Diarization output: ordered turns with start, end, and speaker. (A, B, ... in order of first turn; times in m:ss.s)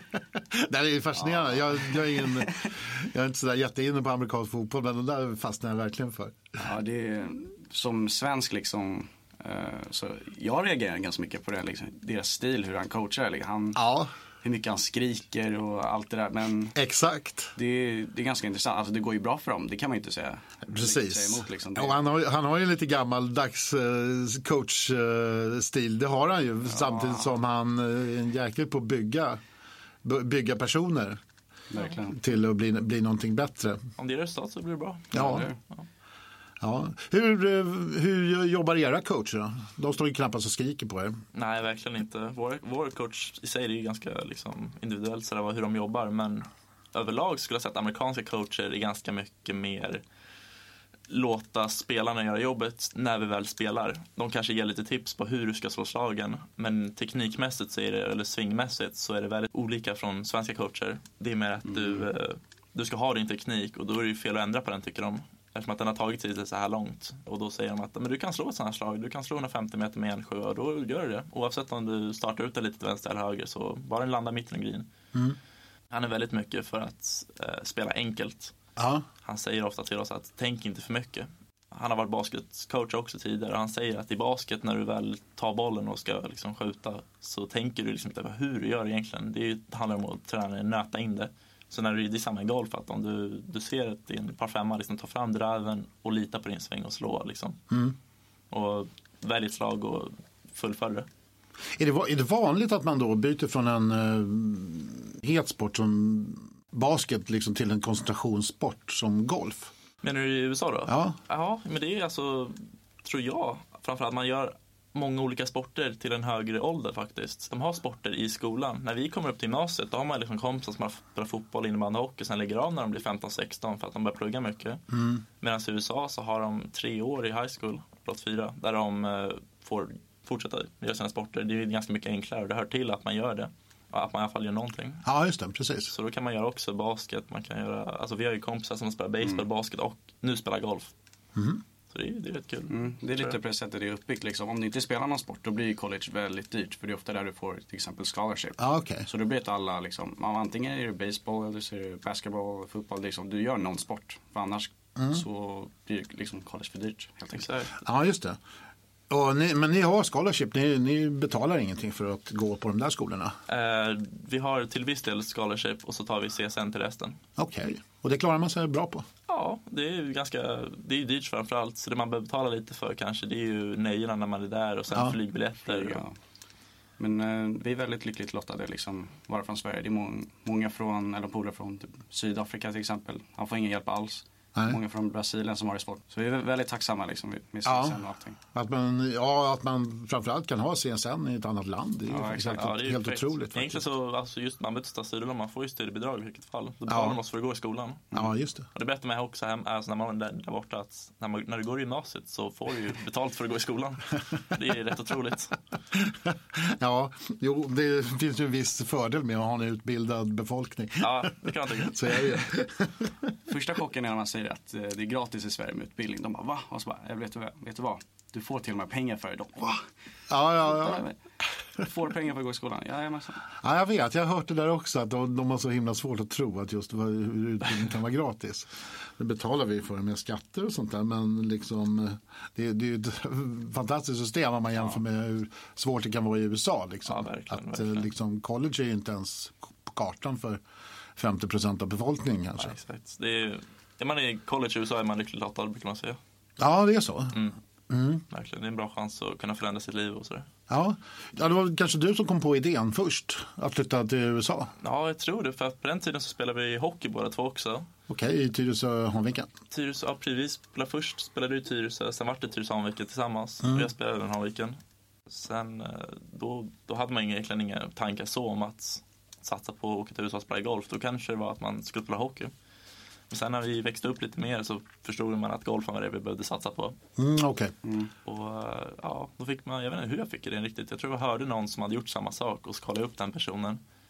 0:00.5-0:06.4 A
0:01.2-0:02.4 B
0:06.6-0:13.8 B
0:13.8-0:14.1 A
0:14.4-0:16.8 B
0:16.8-0:17.5 A
0:17.6-0:22.0 B
0:20.7-0:29.4 A
0:26.7-0:27.3 B
0:30.0-0:31.2 A
0:31.7-0:32.2 B
0:32.1-0:33.8 A
0:34.0-0:35.9 C
0:35.1-0:35.5 A
0:35.1-0:35.6 B
0:36.6-0:41.2 A
0:41.3-0:50.0 C
0:51.1-1:14.9 C
1:01.6-1:02.0 B
1:15.9-1:18.6 C
1:18.8-1:19.0 A
1:19.2-1:37.6 C
1:37.7-1:38.0 A
1:38.5-1:41.1 C
1:41.8-1:49.7 A
1:50.0-2:04.8 C
1:50.9-1:51.2 A
2:04.9-2:05.2 A
2:05.4-2:15.0 C
2:15.0-2:15.9 A
2:15.9-2:20.9 C
2:21.4-2:21.6 A
2:21.9-2:23.4 C
2:22.7-2:37.5 B
2:28.6-2:29.1 A
2:35.0-2:35.2 A
2:37.3-2:37.7 C
2:37.8-2:38.4 A
2:39.1-2:43.4 A
2:43.5-2:47.2 C
2:47.4-2:49.1 A
2:49.3-2:56.0 C
2:55.6-2:56.2 B
2:57.0-3:08.4 B
3:07.7-3:08.0 A
3:08.5-3:13.8 A
3:12.1-3:12.7 B
3:12.5-3:18.1 C
3:16.9-3:17.2 A
3:18.1-3:18.7 A
3:18.7-3:25.6 C
3:25.9-3:33.1 A
3:31.0-3:32.4 C
3:33.5-3:39.9 B
3:40.3-3:41.1 A
3:40.5-3:41.2 B
3:41.8-3:43.5 B
3:43.6-4:00.6 A
3:57.1-3:58.1 C
4:01.2-4:02.8 A
4:02.6-4:06.2 C
4:06.6-4:08.2 A
4:08.3-4:10.5 C
4:10.7-4:14.7 A
4:14.8-4:17.9 C
4:18.1-4:19.5 A
4:19.7-4:24.8 C
4:23.6-4:23.9 A
4:25.3-4:32.5 C
4:33.3-4:37.0 C
4:37.2-4:37.7 A
4:37.8-4:38.1 B
4:38.3-4:43.8 C